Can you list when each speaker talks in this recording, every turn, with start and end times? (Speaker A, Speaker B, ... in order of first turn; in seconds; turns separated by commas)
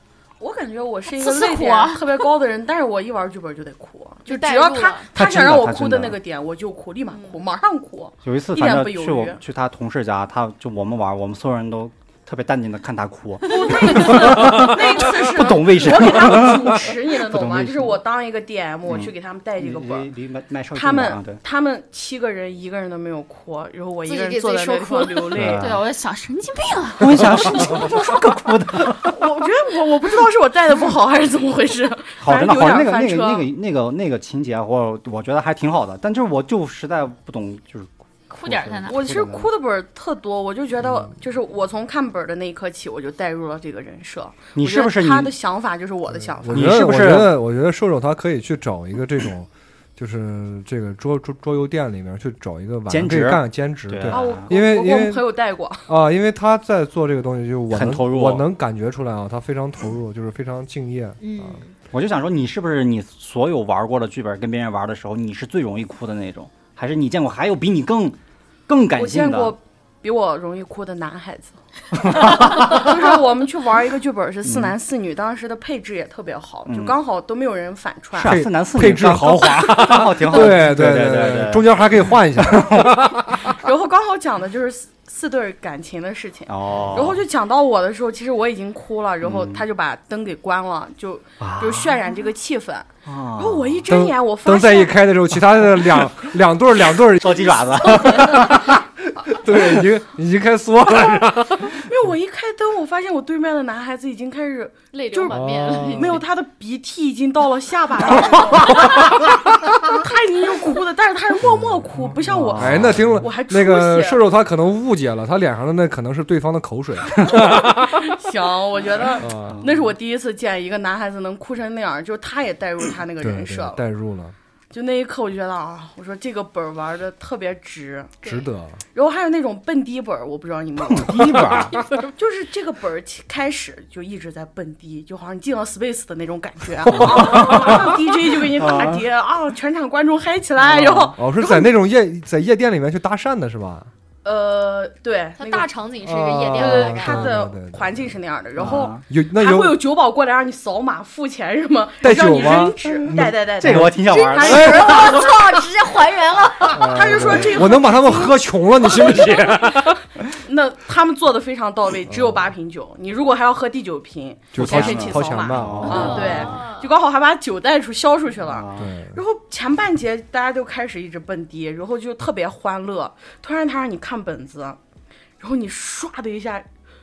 Speaker A: 0.4-9.4, Speaker B: 1.1-2.3, Speaker C: 4.3-5.1, Speaker D: 5.2-6.2, Speaker C: 7.1-7.4, Speaker D: 8.2-18.0, Speaker A: 13.5-20.1, Speaker D: 18.9-21.4, Speaker A: 20.8-25.8, Speaker C: 24.1-25.4, Speaker D: 25.4-25.8, Speaker B: 25.4-27.9, Speaker D: 27.0-29.2, Speaker A: 28.8-33.5, Speaker D: 32.2-39.5, Speaker B: 38.3-39.0, Speaker A: 38.9-46.9, Speaker D: 44.5-45.3, Speaker E: 46.4-55.3, Speaker D: 46.5-47.4, Speaker D: 52.9-54.5, Speaker A: 54.1-55.9, Speaker E: 55.9-61.6, Speaker D: 57.7-58.5, Speaker C: 61.2-61.7, Speaker D: 61.9-68.2, Speaker D: 68.7-69.5, Speaker A: 69.0-78.4, Speaker D: 72.1-73.0, Speaker D: 74.4-74.7, Speaker D: 76.7-77.0, Speaker D: 78.2-82.9, Speaker E: 78.2-83.5, Speaker A: 82.8-95.0, Speaker D: 86.5-87.2, Speaker D: 89.2-89.7, Speaker D: 91.4-92.0, Speaker D: 93.0-93.8, Speaker E: 93.9-101.8, Speaker D: 97.2-98.6, Speaker A: 97.9-98.5, Speaker A: 101.7-114.2, Speaker C: 104.9-106.2, Speaker E: 105.3-106.2, Speaker D: 108.5-108.9, Speaker D: 112.2-113.1, Speaker E: 112.6-118.0, Speaker A: 117.3-123.8, Speaker E: 119.2-119.6, Speaker D: 119.4-119.9, Speaker E: 123.2-124.3, Speaker A: 124.7-128.2, Speaker C: 128.2-128.5, Speaker E: 128.2-128.8, Speaker A: 128.9-141.7, Speaker D: 130.8-131.8, Speaker C: 131.8-132.1, Speaker D: 137.0-137.9, Speaker E: 137.1-137.8, Speaker D: 138.5-139.1, Speaker D: 140.6-141.1, Speaker E: 141.2-143.9, Speaker A: 144.2-145.7, Speaker C: 145.4-147.3, Speaker E: 146.0-148.2, Speaker A: 146.6-159.8, Speaker D: 148.6-149.0, Speaker E: 149.1-149.8, Speaker E: 152.0-155.2, Speaker D: 152.8-155.3, Speaker C: 154.5-156.8, Speaker E: 156.7-160.0, Speaker D: 157.1-157.6, Speaker A: 160.3-174.8, Speaker E: 162.1-162.5, Speaker E: 164.5-166.3, Speaker D: 164.6-166.4, Speaker C: 165.8-166.9, Speaker D: 168.4-168.9, Speaker E: 168.8-169.2, Speaker A: 175.4-176.7